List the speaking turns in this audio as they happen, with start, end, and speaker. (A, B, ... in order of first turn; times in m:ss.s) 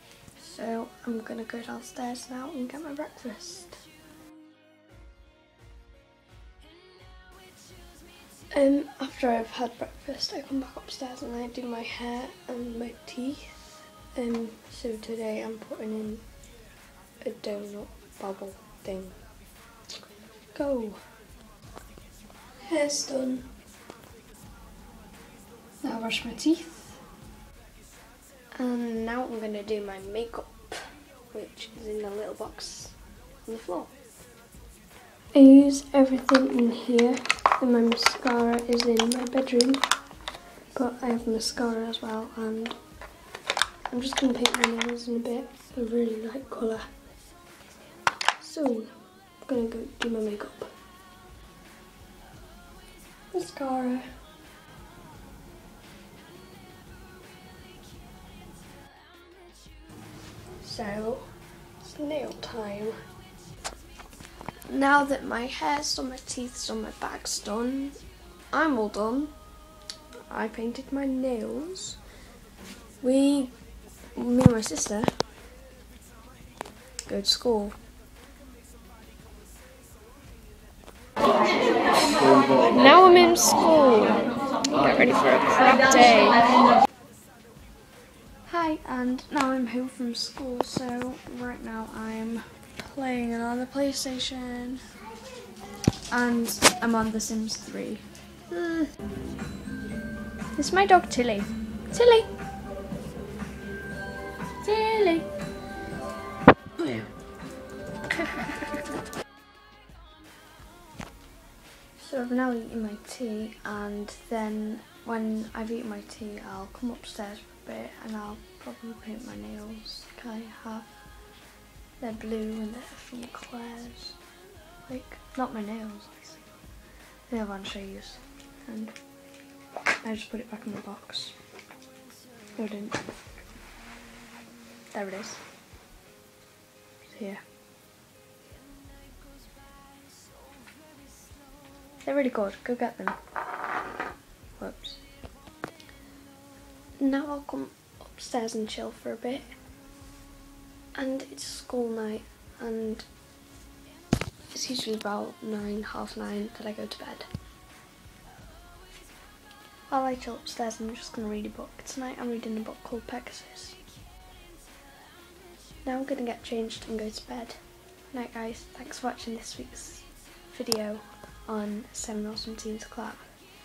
0:00.4-0:03.8 A
0:08.5-0:13.6 A
0:14.2-0:16.2 A
0:17.2-0:19.2 A
0:20.5-0:21.0 A
0:22.7-0:23.5 A
0:25.8-0:27.0 A
0:28.6-0:33.0 A
0:33.5-0:33.9 A
0:35.3-0:39.8 A
0:40.8-0:42.8 A
0:43.9-0:46.9 A
0:48.4-0:48.9 A
0:49.4-0:50.7 A
0:53.3-0:54.2 A
1:00.6-1:03.0 A
1:04.7-1:08.0 A
1:08.5-1:09.3 A
1:10.3-1:12.0 A
1:13.0-1:13.5 A
1:14.2-1:15.1 A
1:17.1-1:17.8 A
1:22.7-1:26.4 A
1:28.5-1:34.8 A
1:36.1-1:38.9 A
1:40.6-1:42.3 A
1:44.6-1:45.3 A
1:46.8-1:47.1 A
1:52.0-2:01.0 A
2:02.0-2:04.2 A
2:04.8-2:06.5 A
2:07.3-2:09.0 A
2:10.0-2:11.4 A
2:12.6-2:13.0 A
2:14.9-2:15.4 A
2:17.1-2:17.4 A
2:22.0-2:23.2 A
2:24.6-2:25.0 A
2:27.0-2:29.5 A
2:31.0-2:33.1 A
2:34.5-2:37.3 A
2:39.9-2:43.8 A
2:45.8-2:47.6 A
2:48.1-2:53.2 A